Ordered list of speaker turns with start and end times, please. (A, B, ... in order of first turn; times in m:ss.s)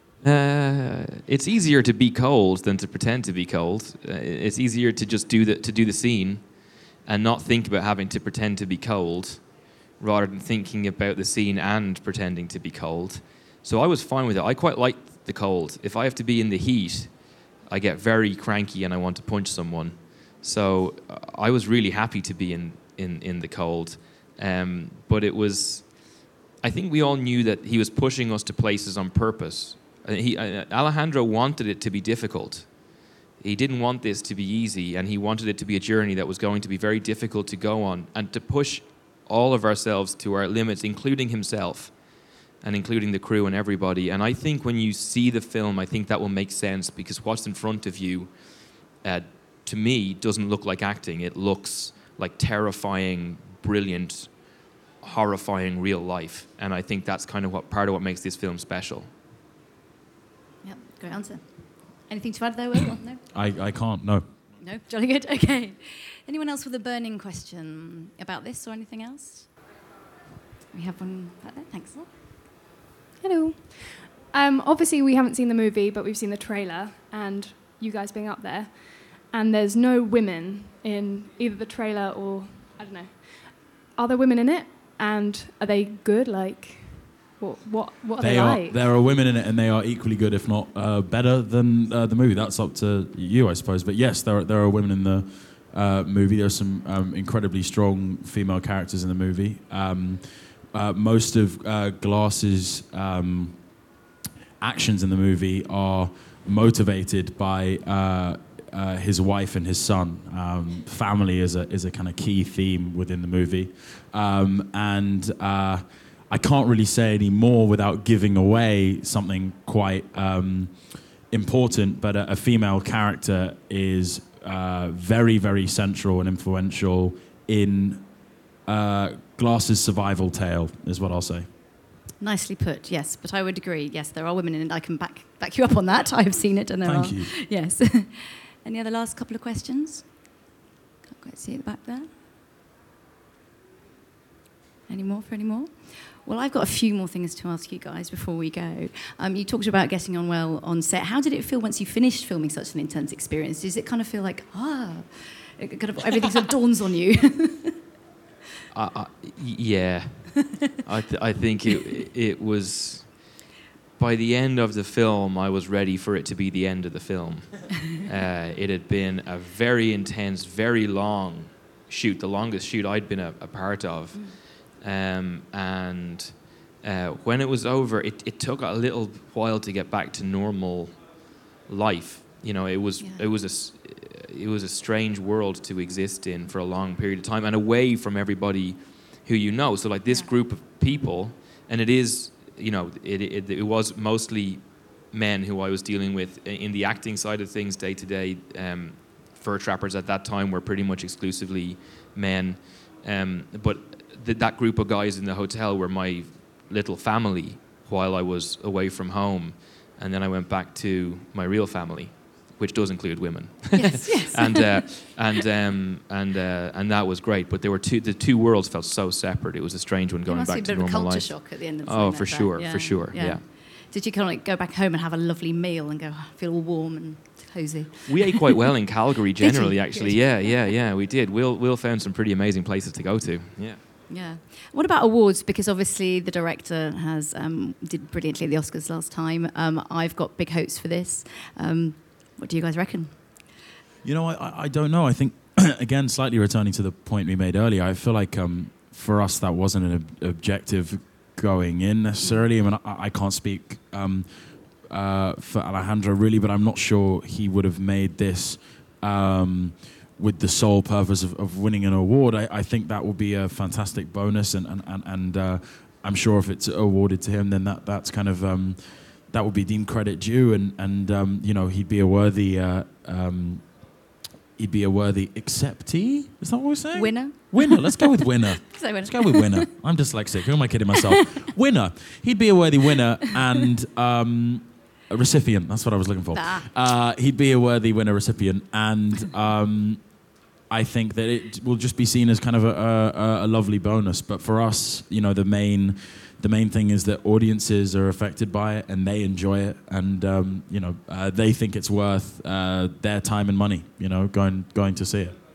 0:00.2-0:59.1 A
1:00.6-1:03.2 B
1:03.3-1:04.3 C
1:04.6-1:09.5 B
1:10.7-1:12.1 B
1:13.2-1:28.8 D
1:28.2-1:43.7 C
1:44.6-2:08.1 C
2:08.6-2:11.5 C
2:12.2-2:20.3 B
2:16.8-2:17.3 C
2:21.1-2:22.1 B
2:24.9-2:37.8 B
2:38.7-2:43.4 A
2:44.0-3:43.4 A
2:54.1-2:54.4 B
3:33.7-3:34.8 B
3:40.3-3:48.4 B
3:48.1-3:53.8 A
3:49.4-3:50.7 B
3:54.1-4:03.5 B
4:04.0-4:34.0 C
4:12.2-4:12.4 B
4:34.6-5:05.4 C
4:36.9-4:39.7 B
4:46.3-4:46.7 B